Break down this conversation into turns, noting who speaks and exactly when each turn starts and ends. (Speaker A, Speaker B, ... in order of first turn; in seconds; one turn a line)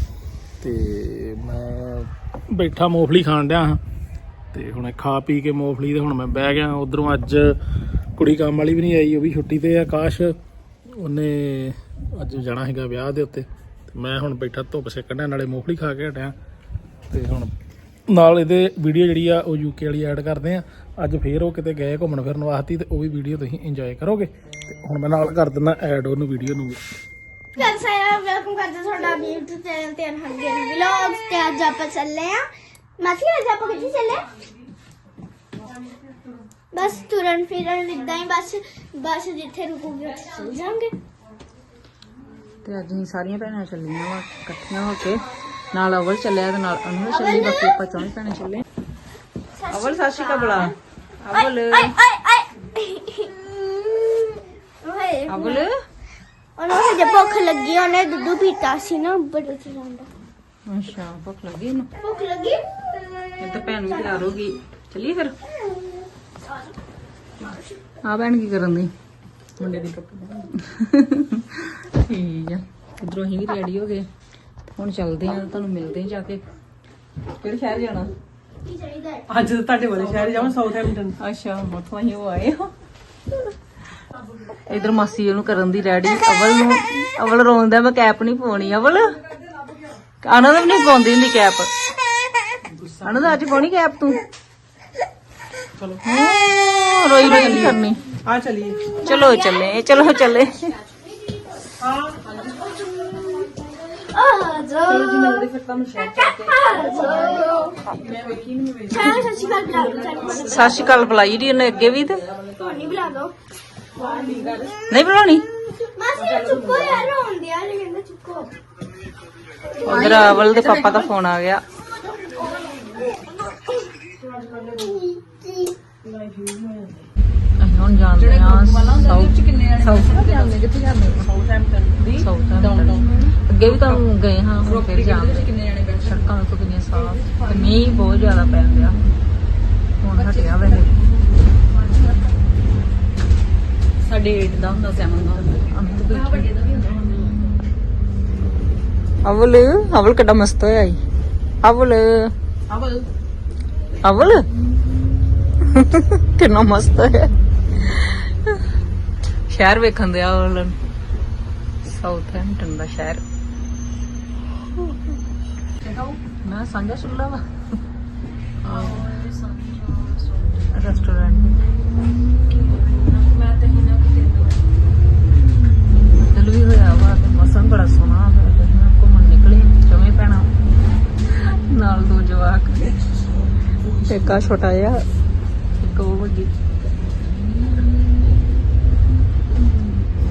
Speaker A: 0.6-3.8
Speaker A: 4.5-7.5
Speaker A: 8.2-10.3
Speaker A: 11.0-16.3
Speaker A: 17.1-17.5
Speaker A: 18.1-26.8
Speaker B: 27.6-32.4
Speaker B: 33.0-34.3
Speaker B: 36.7-41.0
Speaker C: 42.6-48.6
Speaker B: 47.1-47.8
Speaker B: 49.6-50.7
Speaker C: 49.7-51.9
Speaker B: 51.7-55.6
Speaker C: 55.3-55.7
Speaker B: 56.6-60.1
Speaker C: 60.7-61.9
Speaker B: 62.0-62.6
Speaker C: 63.4-65.3
Speaker B: 63.7-64.3
Speaker B: 67.4-67.8
Speaker C: 68.0-68.9
Speaker C: 69.6-74.1
Speaker C: 74.7-76.4
Speaker C: 77.4-78.1
Speaker B: 78.6-79.3
Speaker D: 79.3-81.1
Speaker C: 79.9-80.6
Speaker C: 81.1-82.7
Speaker C: 84.7-89.1
Speaker C: 90.2-91.7
Speaker D: 92.6-93.4
Speaker C: 93.0-94.2
Speaker C: 96.0-98.0
Speaker D: 97.2-97.7
Speaker D: 98.2-98.8
Speaker B: 99.0-100.3
Speaker C: 99.0-100.7
Speaker D: 101.8-102.8
Speaker B: 102.6-105.5
Speaker C: 104.8-107.4
Speaker B: 106.2-107.8
Speaker D: 107.9-111.1
Speaker B: 108.9-111.0
Speaker C: 108.9-109.2
Speaker C: 110.3-112.2
Speaker D: 112.3-112.8
Speaker B: 112.5-113.3
Speaker D: 114.0-114.7
Speaker B: 114.1-114.8
Speaker C: 114.9-115.4
Speaker B: 115.5-118.5
Speaker D: 116.1-117.1
Speaker B: 119.8-120.5
Speaker D: 119.8-121.1
Speaker C: 119.8-121.6
Speaker B: 121.8-124.0
Speaker D: 124.2-125.0
Speaker B: 124.7-125.7
Speaker D: 126.0-127.0
Speaker C: 127.6-131.3
Speaker D: 128.2-134.0
Speaker C: 132.0-139.0
Speaker D: 134.6-136.2
Speaker D: 136.9-137.8
Speaker C: 140.0-140.9
Speaker D: 140.1-142.3
Speaker D: 144.0-147.5
Speaker C: 145.7-146.5
Speaker C: 149.2-151.0
Speaker C: 151.6-152.3
Speaker D: 152.7-153.0
Speaker C: 154.0-154.4
Speaker C: 155.6-158.6
Speaker C: 159.5-160.8
Speaker C: 161.8-163.2
Speaker D: 165.8-166.2
Speaker C: 166.4-167.4
Speaker C: 168.6-169.1
Speaker D: 168.6-170.7
Speaker C: 170.7-171.6
Speaker D: 172.5-174.6
Speaker C: 176.1-180.5
Speaker C: 181.3-182.9
Speaker C: 184.0-185.0
Speaker C: 185.8-186.5